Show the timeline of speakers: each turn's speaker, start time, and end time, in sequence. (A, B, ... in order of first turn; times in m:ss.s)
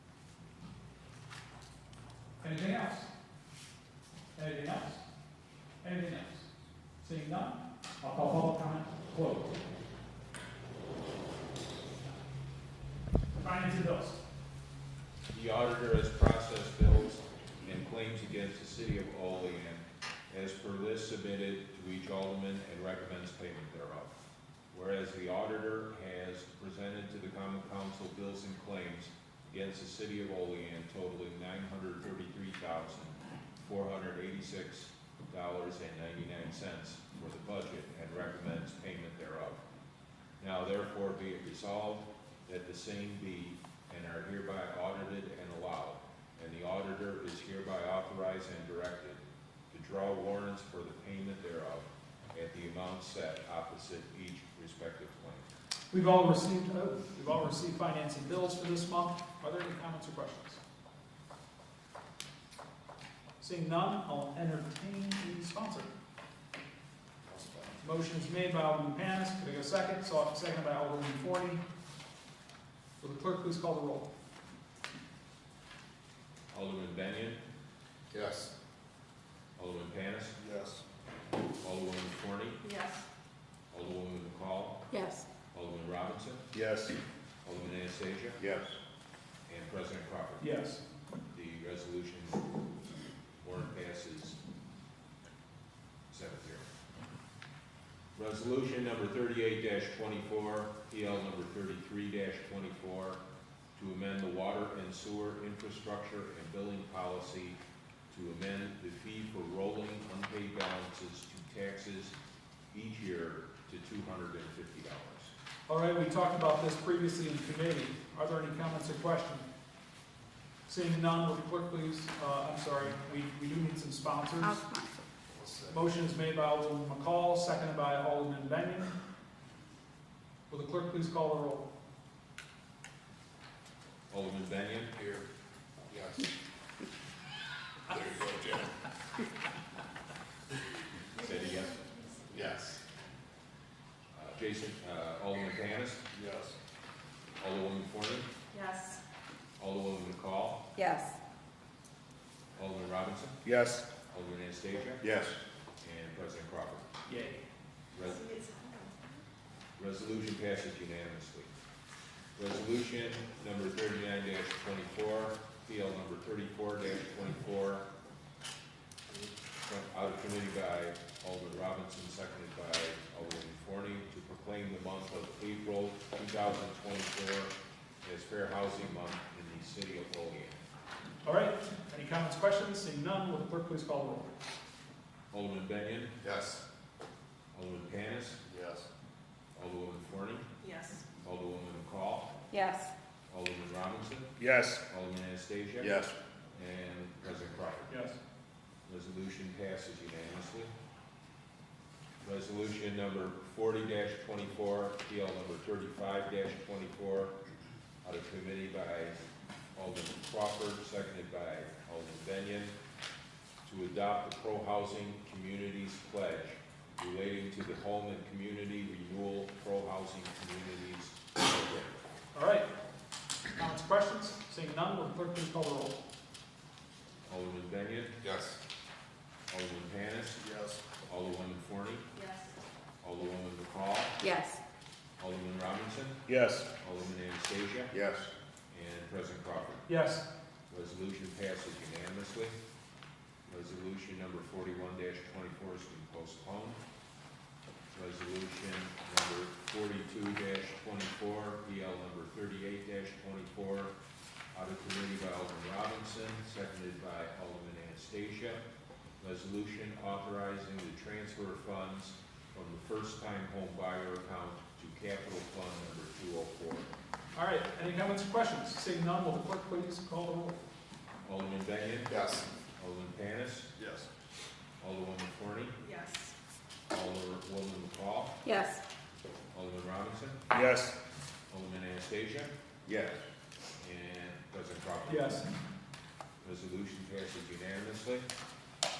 0:02.4-0:03.1 A
0:04.3-0:05.0 A
0:05.8-0:06.4 A
0:07.0-0:09.6 A
0:13.4-0:14.2 A
0:15.3-0:39.6 B
0:40.4-0:55.5 B
0:55.9-1:00.6 A
1:03.4-1:05.9 A
1:07.3-1:07.8 C
1:07.8-1:11.6 A
1:13.0-1:14.1 A
1:16.5-1:17.4 B
1:18.1-1:18.5 C
1:19.6-1:20.4 B
1:20.4-1:20.8 C
1:21.6-1:22.6 B
1:22.6-1:23.0 D
1:23.7-1:24.8 B
1:24.9-1:25.2 E
1:25.5-1:26.4 B
1:26.5-1:27.0 C
1:27.4-1:28.4 B
1:28.4-1:28.8 C
1:29.5-1:30.5 B
1:30.4-1:30.8 A
1:31.3-1:32.4 B
1:33.4-1:34.4 B
1:36.1-1:36.6 B
1:38.2-1:43.2 B
1:43.8-1:47.6 B
1:48.1-1:52.1 B
1:52.7-1:55.3 B
1:55.7-1:59.4 A
2:00.7-2:04.6 A
2:04.4-2:05.0 E
2:05.3-2:05.8 C
2:05.7-2:09.0 A
2:10.5-2:11.7 A
2:14.1-2:15.0 B
2:15.9-2:16.2 C
2:17.9-2:18.7 C
2:21.1-2:21.8 B
2:22.3-2:22.6 C
2:24.1-2:26.0 B
2:26.1-2:26.5 C
2:27.4-2:28.3 B
2:28.5-2:29.0 D
2:29.6-2:30.7 B
2:30.8-2:31.2 E
2:32.6-2:33.4 B
2:33.4-2:33.8 C
2:34.1-2:35.0 B
2:35.0-2:35.4 C
2:35.8-2:36.9 B
2:37.1-2:37.4 A
2:37.9-2:38.2 B
2:38.0-2:39.2 D
2:39.8-2:41.5 B
2:42.4-2:47.8 B
2:49.6-3:00.6 B
3:01.2-3:04.3 A
3:05.3-3:06.2 B
3:06.2-3:06.6 C
3:07.5-3:08.4 B
3:08.4-3:08.9 C
3:09.5-3:10.5 B
3:10.6-3:11.0 D
3:11.2-3:12.3 B
3:12.5-3:12.9 E
3:13.3-3:14.3 B
3:14.4-3:14.8 C
3:14.8-3:15.9 B
3:15.8-3:16.2 C
3:16.5-3:17.9 B
3:17.9-3:18.2 A
3:18.9-3:20.7 B
3:22.2-3:27.3 B
3:28.0-3:29.2 B
3:29.7-3:32.7 B
3:33.6-3:41.9 B
3:42.3-3:42.7 A
3:43.5-3:46.0 A
3:47.3-3:48.2 B
3:48.2-3:48.6 C
3:49.5-3:50.4 B
3:50.4-3:50.8 C
3:51.0-3:52.0 B
3:52.1-3:52.5 D
3:53.0-3:54.2 B
3:54.2-3:54.6 E
3:55.2-3:56.2 B
3:56.2-3:56.7 C
3:56.8-3:57.9 B
3:57.9-3:58.3 C
3:58.7-3:59.8 B
3:59.9-4:00.2 A
4:00.7-4:02.5 B
4:03.5-4:06.8 B
4:07.9-4:13.9 B
4:14.5-4:18.6 B
4:19.2-4:26.9 B
4:27.3-4:30.6 A
4:31.2-4:32.1 B
4:32.1-4:32.4 C
4:32.8-4:33.7 B
4:33.8-4:34.1 C
4:34.8-4:35.8 B
4:35.8-4:36.3 D
4:36.9-4:38.4 B
4:38.4-4:38.8 E
4:39.5-4:40.4 B
4:40.5-4:40.9 C
4:41.5-4:42.5 B
4:42.8-4:43.2 C
4:43.8-4:45.4 B
4:45.1-4:45.4 A
4:46.4-4:48.2 B